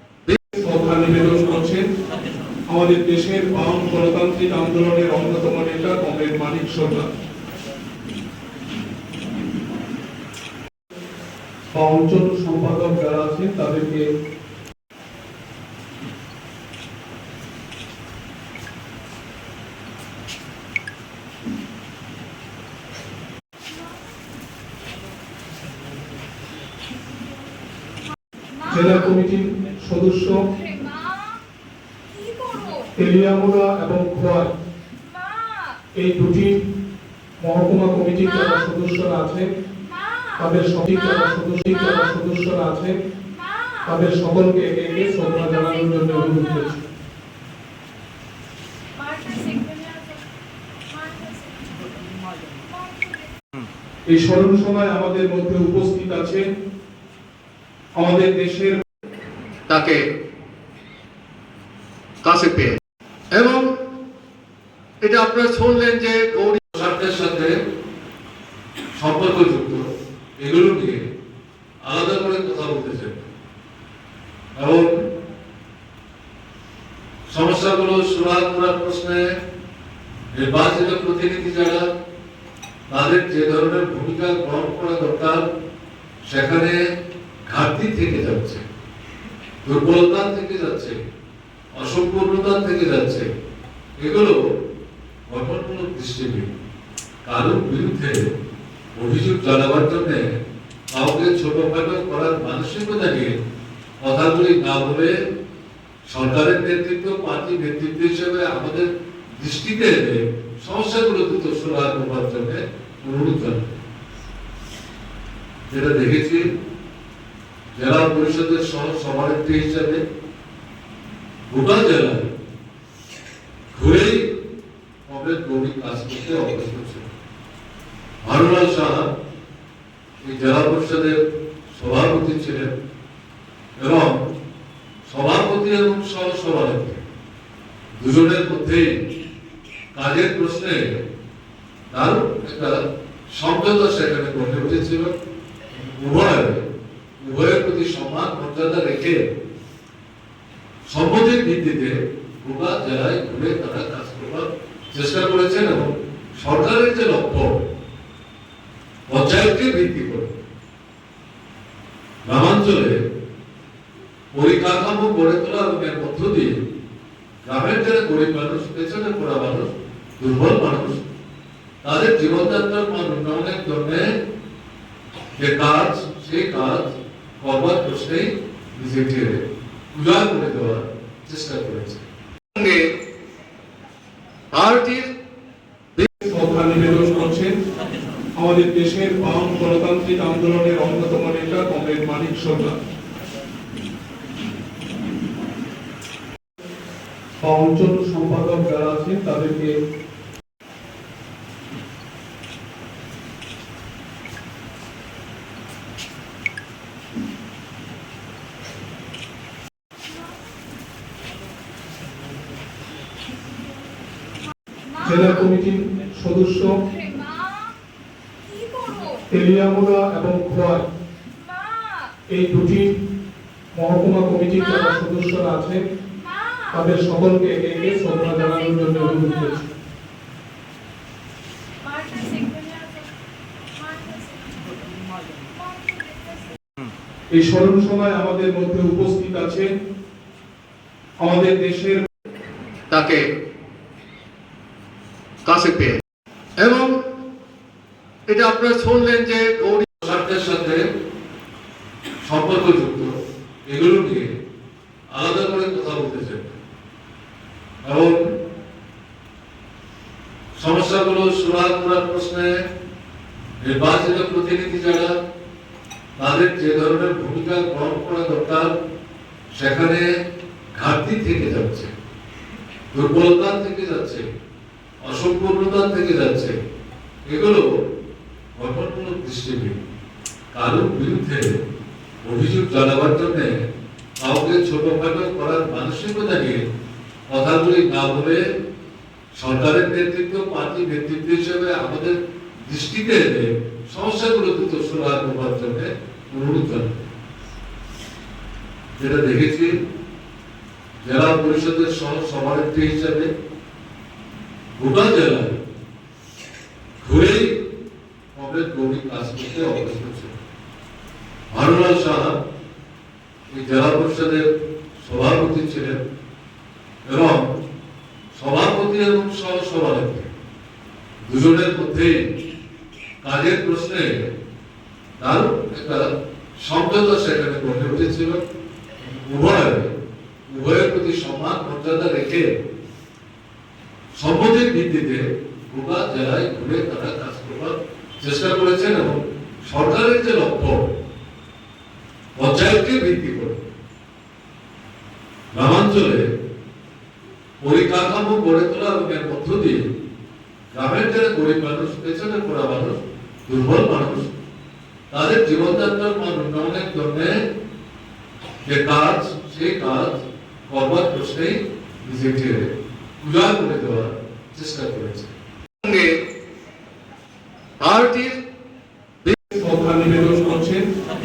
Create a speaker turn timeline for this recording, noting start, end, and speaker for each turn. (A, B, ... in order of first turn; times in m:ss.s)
0:00.6-0:01.9 A
0:02.7-0:07.0 A
0:11.7-0:14.0 A
0:28.7-0:30.4 A
0:30.8-0:31.1 B
0:32.4-0:32.8 B
0:33.0-0:34.5 A
0:36.0-0:36.6 A
0:37.4-0:39.5 A
0:40.4-0:42.9 A
0:43.8-0:46.8 A
0:49.0-0:50.2 B
0:51.0-0:51.8 B
0:54.1-0:56.4 A
0:58.0-0:58.8 A
1:02.3-1:02.7 C
1:05.0-1:07.5 D
1:09.0-1:09.8 D
1:10.4-1:11.0 D
1:11.8-1:13.3 D
1:14.6-1:15.0 D
1:17.3-1:19.2 D
1:20.3-1:21.8 D
1:22.9-1:25.4 D
1:26.3-1:26.8 D
1:27.5-1:28.6 D
1:29.6-1:31.0 D
1:31.8-1:33.3 D
1:34.0-1:34.4 D
1:35.3-1:36.5 D
1:37.2-1:38.2 D
1:39.0-1:40.3 D
1:40.9-1:43.3 D
1:44.0-1:45.1 D
1:46.1-1:53.6 D
1:55.7-1:56.4 D
1:57.8-2:00.0 D
2:01.5-2:02.3 D
2:03.7-2:04.2 D
2:05.1-2:07.0 D
2:08.2-2:09.1 D
2:10.2-2:11.2 D
2:11.7-2:12.7 D
2:13.8-2:14.2 D
2:15.1-2:17.0 D
2:18.0-2:18.9 D
2:19.9-2:21.0 D
2:21.9-2:22.7 D
2:23.3-2:25.1 D
2:25.8-2:26.6 D
2:27.2-2:29.2 D
2:30.9-2:37.6 D
2:39.1-2:40.3 D
2:42.3-2:43.0 D
2:44.3-2:46.5 D
2:47.4-2:51.0 D
2:51.8-2:54.0 D
2:55.4-2:59.4 D
2:59.9-3:02.0 D
3:04.6-3:04.9 D
3:04.6-3:05.0 C
3:06.2-3:07.5 A
3:08.4-3:12.7 A
3:17.4-3:19.7 A
3:35.0-3:36.7 A
3:38.7-3:39.1 B
3:39.3-3:40.8 A
3:42.3-3:42.9 A
3:43.8-3:45.8 A
3:46.7-3:49.6 A
3:51.9-3:53.0 B
3:53.8-3:54.8 B
3:55.6-3:56.2 B
3:57.4-3:59.7 A
4:01.2-4:02.0 A
4:02.9-4:03.2 C
4:05.5-4:05.9 C
4:08.3-4:10.8 D
4:12.2-4:13.1 D
4:13.7-4:14.3 D
4:15.2-4:16.6 D
4:17.8-4:18.2 D
4:20.6-4:22.5 D
4:23.6-4:25.1 D
4:26.2-4:28.7 D
4:29.5-4:30.1 D
4:30.8-4:31.9 D
4:32.9-4:34.2 D
4:35.0-4:36.5 D
4:37.3-4:37.6 D
4:38.6-4:39.8 D
4:40.5-4:41.5 D
4:42.2-4:43.6 D
4:44.2-4:46.6 D
4:47.3-4:48.4 D
4:49.3-4:56.9 D
4:59.0-4:59.7 D
5:01.0-5:03.3 D
5:04.8-5:05.5 D
5:07.0-5:07.5 D
5:08.3-5:10.3 D
5:11.5-5:12.3 D
5:13.5-5:14.4 D
5:15.0-5:16.0 D
5:17.1-5:17.5 D
5:18.3-5:20.3 D
5:21.2-5:22.2 D
5:23.2-5:24.3 D
5:25.2-5:26.0 D
5:26.6-5:28.4 D
5:29.0-5:29.9 D
5:30.5-5:32.5 D
5:34.2-5:40.8 D
5:42.4-5:43.6 D
5:45.6-5:46.2 D
5:47.6-5:49.8 D
5:50.7-5:54.3 D
5:55.1-5:57.3 D
5:58.6-6:02.6 D
6:03.2-6:05.3 D
6:07.8-6:08.2 D
6:08.0-6:08.3 C
6:09.5-6:10.8 A